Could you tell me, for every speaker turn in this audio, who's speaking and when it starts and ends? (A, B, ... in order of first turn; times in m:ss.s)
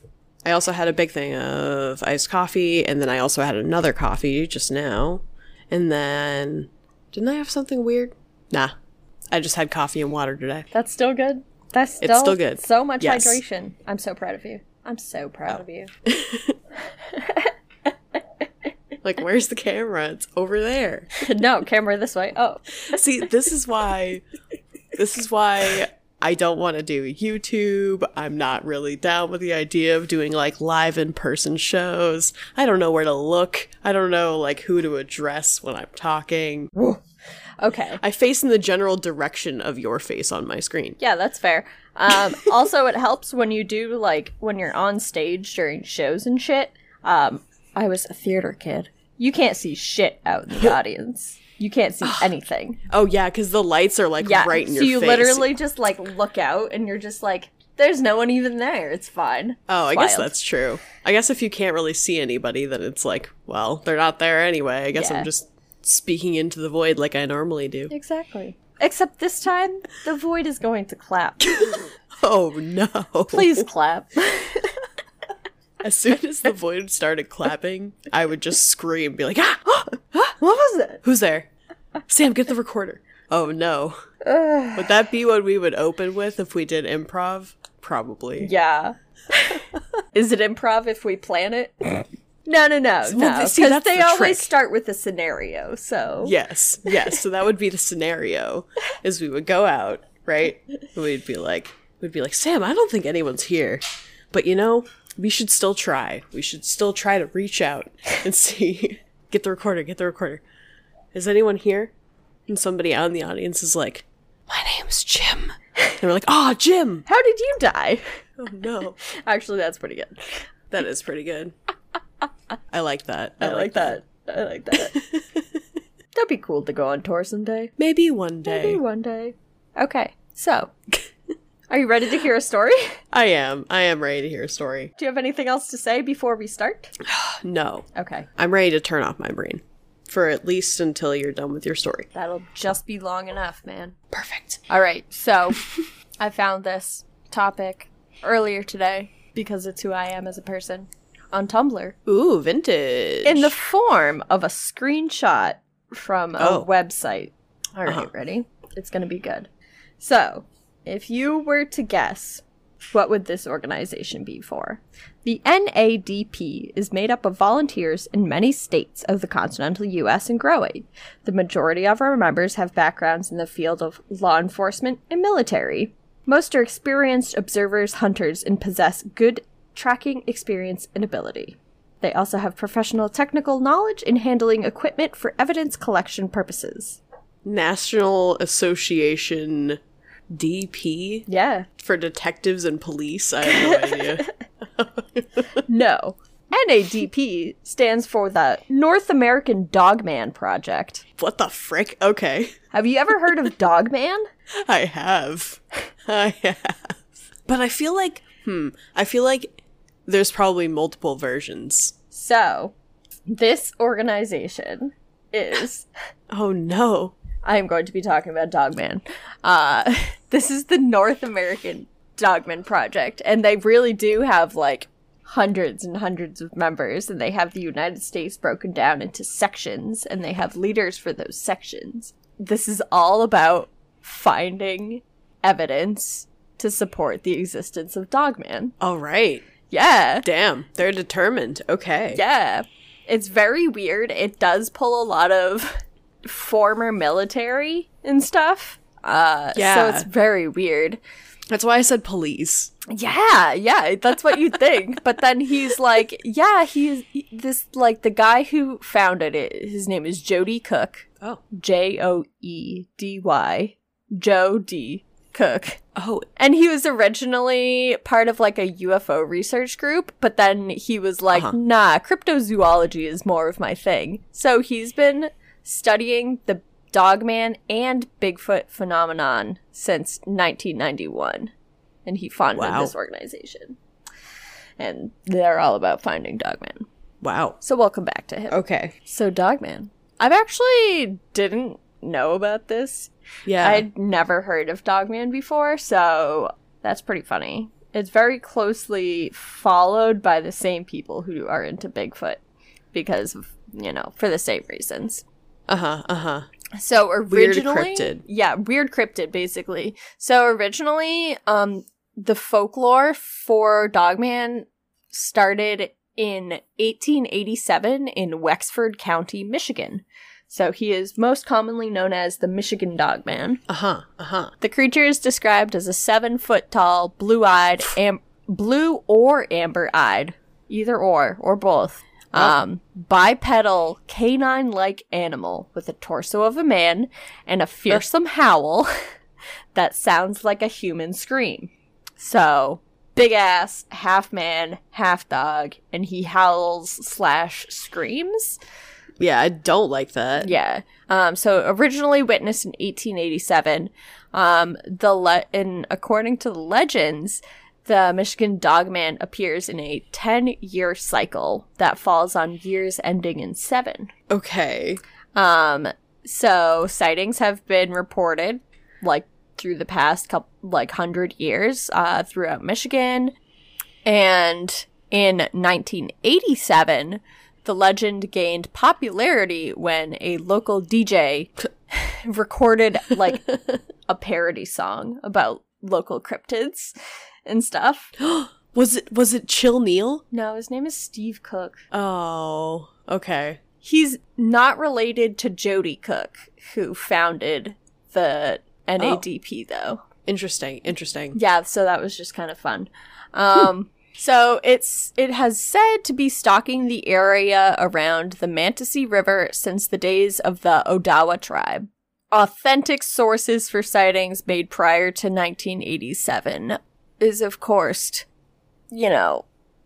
0:00.4-0:08.7 A
0:09.3-0:10.7 A
0:10.7-0:15.9 B
0:12.0-0:13.4 A
0:16.1-0:16.6 A
0:17.1-0:17.5 B
0:19.0-0:21.1 A
0:21.2-0:23.0 B
0:22.9-0:24.2 A
0:24.9-0:36.7 A
0:36.8-0:37.0 B
0:37.6-0:38.0 B
0:38.0-0:41.0 A
0:41.0-0:52.8 B
0:52.0-0:52.3 A
0:52.9-0:55.5 A
0:54.2-1:00.3 B
0:59.7-1:07.9 A
1:04.9-1:05.3 B
1:07.9-1:11.9 B
1:11.5-1:13.7 A
1:13.3-1:14.8 B
1:15.8-1:20.4 A
1:20.4-1:21.0 B
1:21.0-1:21.5 A
1:22.1-1:24.0 A
1:24.2-1:24.9 B
1:24.8-1:28.5 A
1:28.4-1:36.4 B
1:33.1-1:34.5 A
1:36.2-1:50.4 A
1:51.1-1:51.9 A
1:52.5-1:57.0 A
1:57.1-1:58.2 B
1:58.4-1:59.0 A
1:59.0-2:00.4 B
2:00.7-2:01.5 A
2:02.7-2:04.0 A
2:03.4-2:05.0 B
2:04.7-2:05.4 A
2:06.1-2:07.7 B
2:07.8-2:08.8 A
2:08.5-2:10.7 B
2:11.7-2:13.0 B
2:13.1-2:14.9 A
2:15.0-2:16.9 B
2:17.0-2:22.1 A
2:18.0-2:18.3 B
2:22.1-2:24.0 B
2:24.1-2:24.6 A
2:24.7-2:25.7 B
2:26.2-2:32.0 B
2:32.1-2:33.5 A
2:33.2-3:07.0 B
2:36.4-2:36.7 A
3:07.4-3:09.8 A
3:10.3-3:11.3 A
3:11.3-3:11.7 B
3:11.8-3:15.6 A
3:13.4-3:14.3 B
3:15.7-3:21.0 B
3:21.2-3:22.6 A
3:22.7-3:24.2 B
3:24.6-3:29.5 A
3:30.1-3:32.0 A
3:32.1-3:32.7 B
3:33.3-3:35.9 B
3:36.3-3:37.2 A
3:37.4-3:58.7 B
3:58.8-3:59.5 A
3:59.7-4:00.3 B
4:00.2-4:02.2 A
4:02.1-4:11.0 B
4:09.6-4:10.1 A
4:11.5-4:12.7 A
4:12.9-4:25.8 B
4:26.0-4:26.3 A
4:26.4-4:41.5 B
4:42.1-4:43.8 B
4:42.6-4:42.9 A
4:44.8-4:46.9 B
4:47.2-4:47.6 A
4:47.6-5:02.4 B
4:48.5-4:48.9 A
4:53.5-4:53.9 A
5:02.9-5:05.2 B
5:05.7-5:06.5 A
5:06.8-5:23.6 B
5:07.3-5:08.2 A
5:23.7-5:24.5 A
5:24.6-5:38.9 B
5:39.8-5:48.6 B
5:49.2-5:50.5 A
5:50.4-6:04.1 B
6:04.3-6:05.0 A
6:05.4-6:13.3 B
6:14.0-6:23.4 B
6:24.1-6:26.9 B
6:27.5-6:28.1 B
6:28.2-6:30.2 A
6:30.3-6:31.8 B
6:31.9-6:33.6 A
6:33.8-6:40.0 B
6:39.0-6:39.2 A
6:40.3-6:41.4 A
6:41.3-6:58.3 B
6:58.9-6:59.4 B